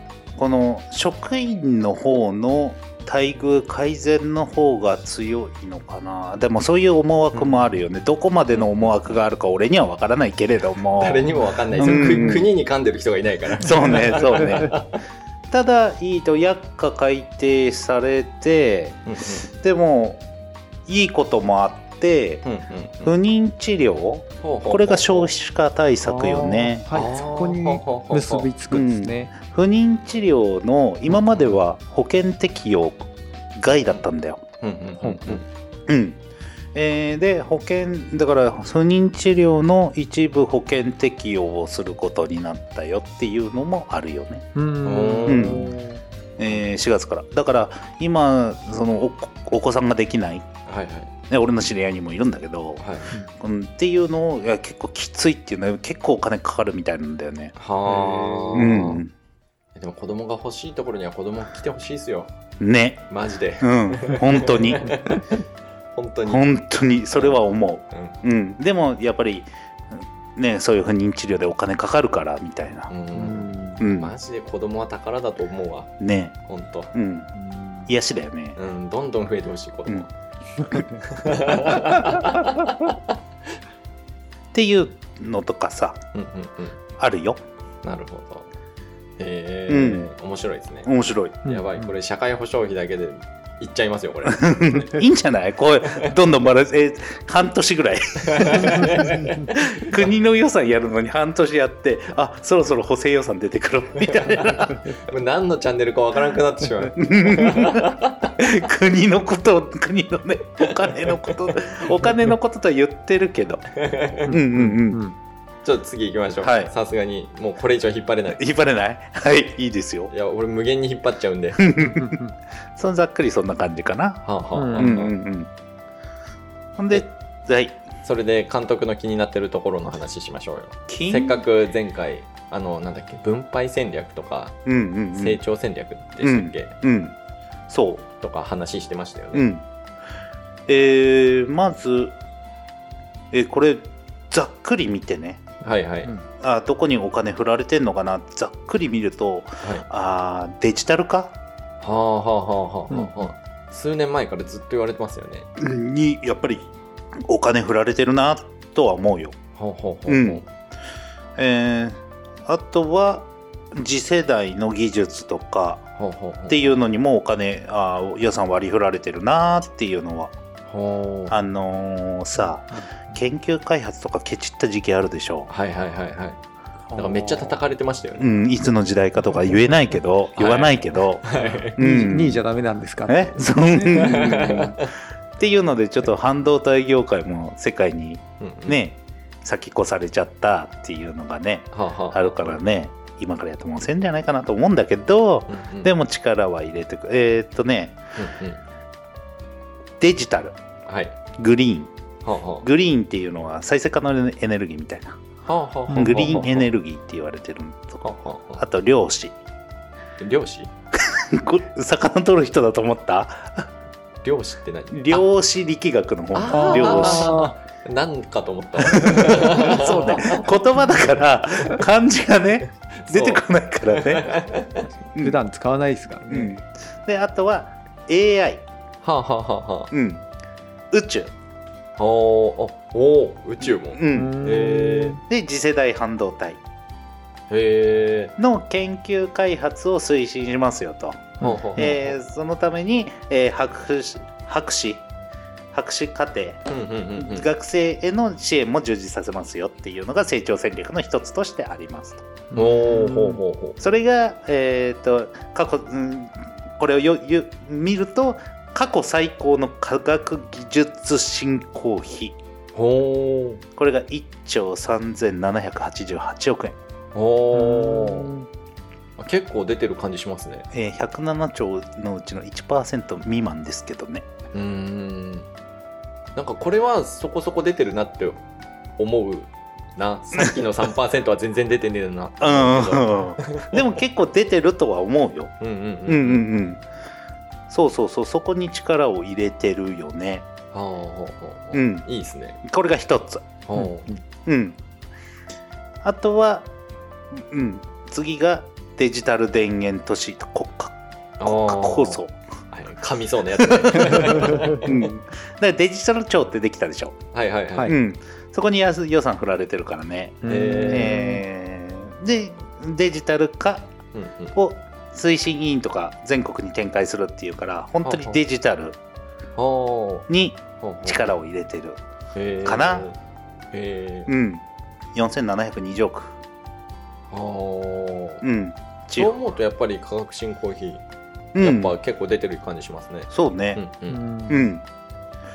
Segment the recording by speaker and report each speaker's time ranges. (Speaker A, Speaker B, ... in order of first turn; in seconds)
Speaker A: 0.4-12.5, 13.5-14.8, 15.5-20.2, 20.9-22.4, 23.0-26.9, 28.7-34.4, 35.9-36.2, 36.7-44.4, 45.3-45.7, 46.4-50.5, 51.3-52.8, 53.4-57.5, 58.5-59.1, 62.6-63.0, 63.6-64.9, 66.2-72.9, 73.8-74.1, 76.0-76.3, 76.9-77.3, 77.9-78.6, 84.5-86.0, 87.0-87.4, 89.7-90.1, 90.8-91.4, 94.2-104.9, 107.0-113.6, 114.3-115.0, 116.4-116.7, 118.4-120.1, 121.6-122.2, 122.8-124.2, 124.7-125.5, 126.8-127.8, 130.9-131.4, 134.7-135.4, 136.2-137.2, 137.7-138.0, 139.3-139.6, 140.7-142.2, 143.3-145.4, 146.4-151.3, 155.6-156.7, 157.2-159.3, 160.1-160.4, 161.3-165.9, 166.5-170.3, 171.3-175.5, 178.2-182.4, 183.1-184.8, 185.4-198.0, 200.0-200.6, 201.4-201.9, 202.6-205.2, 205.9-208.0, 208.6-209.3, 210.9-213.7, 214.9-217.4, 218.8-224.4, 226.3-228.6, 229.9-230.2, 230.9-231.3, 233.9-234.4, 235.2-236.6, 238.4-245.0, 245.7-252.2, 253.8-262.4, 263.8-266.8, 270.7-274.3, 282.4-285.5, 286.1-286.8, 287.7-290.5, 291.7-292.1, 292.6-293.4, 294.4-294.8, 296.0-296.7, 297.3-302.3, 303.6-307.2, 307.8-313.9, 314.5-319.0, 320.3-322.0, 322.6-323.1, 324.3-326.4, 328.4-329.4, 331.5-331.9, 333.3-333.8, 334.5-334.8
Speaker B: 7.3-7.7, 8.5-9.2, 10.9-15.0, 19.1-19.5, 22.4-23.1, 24.4-25.3, 26.9-28.5, 34.6-35.4, 44.8-45.8, 50.6-51.1, 52.8-53.1, 57.5-59.0, 59.7-62.3, 63.1-65.3, 65.9-66.5, 67.9-68.2, 72.9-75.9, 76.5-76.9, 78.5-80.1, 81.0-83.2, 86.1-86.8, 87.8-88.5, 89.2-90.9, 91.4-95.0, 98.2-100.0, 104.0-108.3, 110.6-111.3, 113.7-114.3, 115.6-118.4, 120.1-121.8, 124.2-125.1, 128.0-134.6, 135.1-136.7, 138.2-139.5, 145.6-146.1, 149.6-149.9, 151.8-155.5, 159.6-160.5, 166.0-166.7, 170.7-171.4, 175.5-176.4, 176.9-178.3, 180.3-181.8, 183.9-184.9, 188.4-188.8, 191.7-192.6, 195.5-195.9, 198.2-198.6, 200.8-201.2, 202.2-202.7, 205.4-206.7, 208.0-208.6, 210.2-210.7, 214.2-215.3, 216.3-220.5, 222.9-224.9, 229.0-229.9, 232.0-235.2, 237.5-238.3, 241.4-242.1, 246.7-247.5, 252.5-253.8, 262.7-263.6, 267.1-268.3, 269.2-270.7, 274.5-275.5, 276.4-278.4, 279.0-283.8, 285.6-286.5, 290.7-292.6, 293.6-294.2, 301.4-302.2, 302.7-305.1, 307.3-307.9, 310.4-311.2, 314.1-314.6, 318.0-318.4, 319.6-320.3, 320.8-321.3, 322.3-323.2, 323.7-324.3, 327.3-328.4, 329.1-331.0, 331.6-334.2
Speaker C: 11.7-12.5, 26.0-29.3, 35.0-35.4, 44.5-46.0, 57.9-58.8, 73.1-73.8, 77.3-77.9, 91.4-91.9, 114.3-115.2, 122.0-122.3, 124.5-125.0, 152.9-153.3, 172.7-173.0, 176.9-177.6, 181.4-184.6, 205.9-206.2, 216.5-217.5, 219.2-219.5, 225.2-226.5, 234.1-235.2, 241.4-241.9, 252.5-253.4, 267.5-268.5, 293.8-294.1, 310.4-311.4, 334.1-334.7